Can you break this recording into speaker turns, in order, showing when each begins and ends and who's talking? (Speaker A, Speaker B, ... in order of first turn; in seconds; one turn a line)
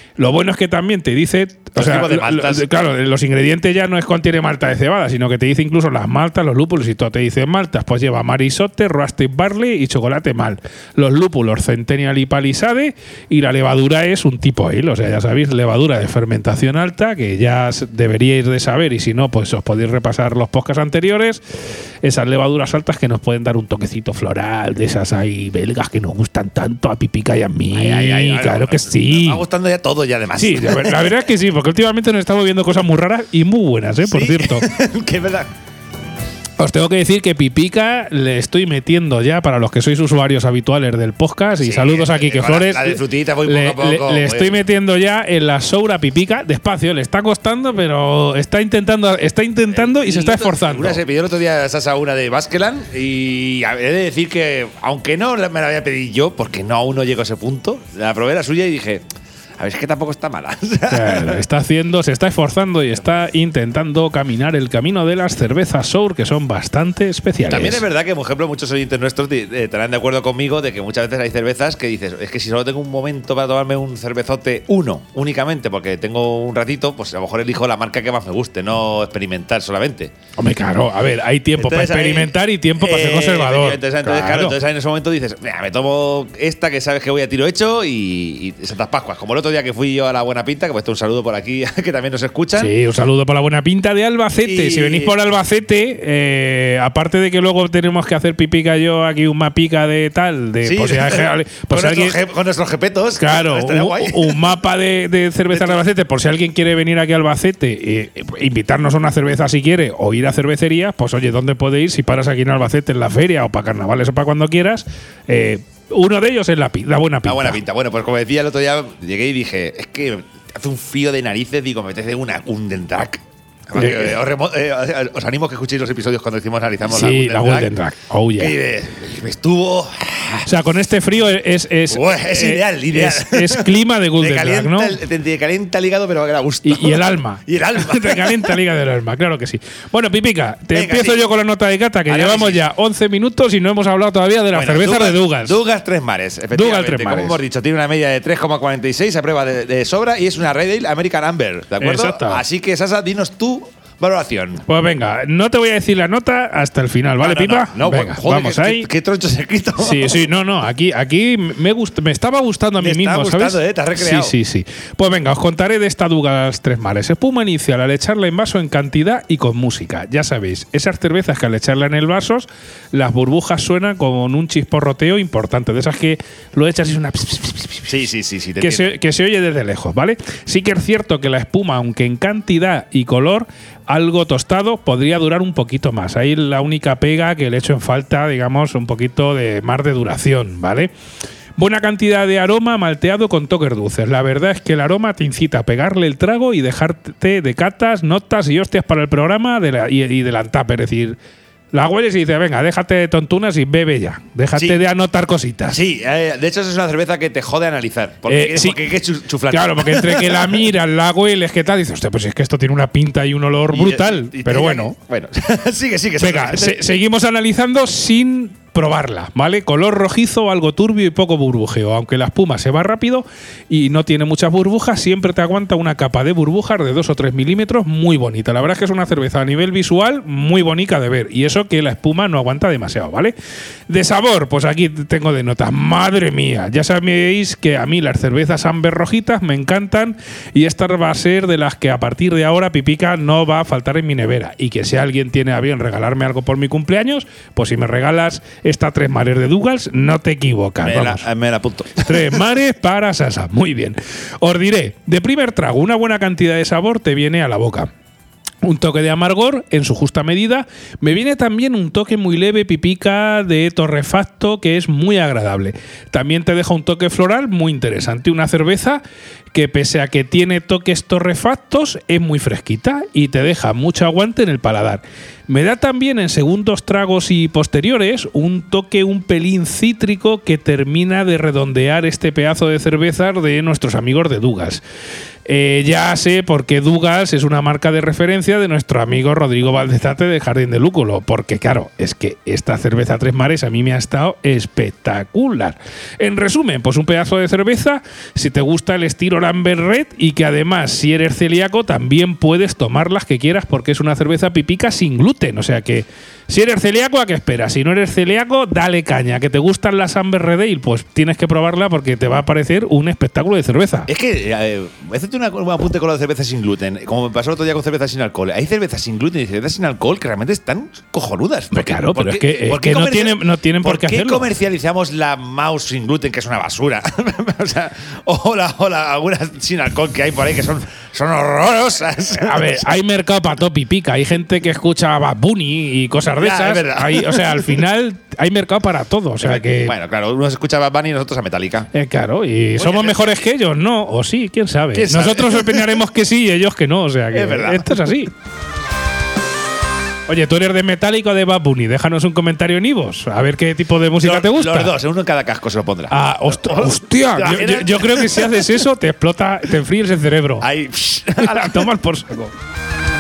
Speaker A: 0.2-29.4
Speaker B: 1.8-2.7
Speaker B: 27.7-31.2
Speaker A: 30.4-34.7
Speaker B: 34.0-35.5
Speaker A: 36.6-51.0
Speaker B: 41.6-44.6
Speaker B: 49.7-59.0
Speaker B: 59.6-61.4
Speaker A: 60.9-67.8
Speaker B: 67.5-80.1
Speaker A: 80.4-84.6
Speaker B: 81.6-92.7
Speaker A: 92.6-102.2
Speaker B: 94.4-95.2
Speaker B: 100.6-104.4
Speaker A: 103.2-117.6
Speaker B: 105.5-105.8
Speaker B: 117.2-127.7
Speaker A: 123.7-124.2
Speaker A: 126.9-128.6
Speaker B: 128.4-130.6
Speaker A: 130.4-135.0
Speaker B: 131.9-138.6
Speaker A: 136.6-145.6
Speaker B: 140.7-141.2
Speaker B: 142.1-142.6
Speaker B: 144.5-154.6
Speaker A: 146.5-147.4
Speaker A: 151.8-152.4
Speaker A: 154.7-158.9
Speaker B: 157.2-160.2
Speaker A: 159.8-178.0
Speaker B: 162.8-164.3
Speaker B: 177.9-178.9
Speaker A: 178.6-190.9
Speaker A: 191.6-201.2
Speaker A: 201.7-205.8
Speaker B: 204.6-204.8
Speaker B: 205.7-210.6
Speaker A: 208.3-208.8
Speaker A: 209.5-215.0
Speaker B: 213.7-216.8
Speaker A: 216.2-233.3
Speaker A: 233.9-251.3
Speaker B: 250.8-252.4
Speaker A: 252.0-257.9
Speaker A: 258.6-269.0
Speaker A: 269.5-284.8
Speaker A: 285.5-314.1
Speaker B: 314.1-332.9
Speaker A: 321.7-324.5
Speaker A: 332.4-339.9
Speaker B: 336.4-337.8
Speaker B: 339.4-341.9
Speaker A: 341.9-348.3
Speaker B: 342.8-343.4
Speaker B: 344.9-346.0
Speaker B: 347.3-348.0
Speaker A: 350.3-354.9
Speaker B: 354.2-358.7
Speaker A: 356.1-360.7
Speaker B: 360.6-361.9
Speaker A: 361.4-362.5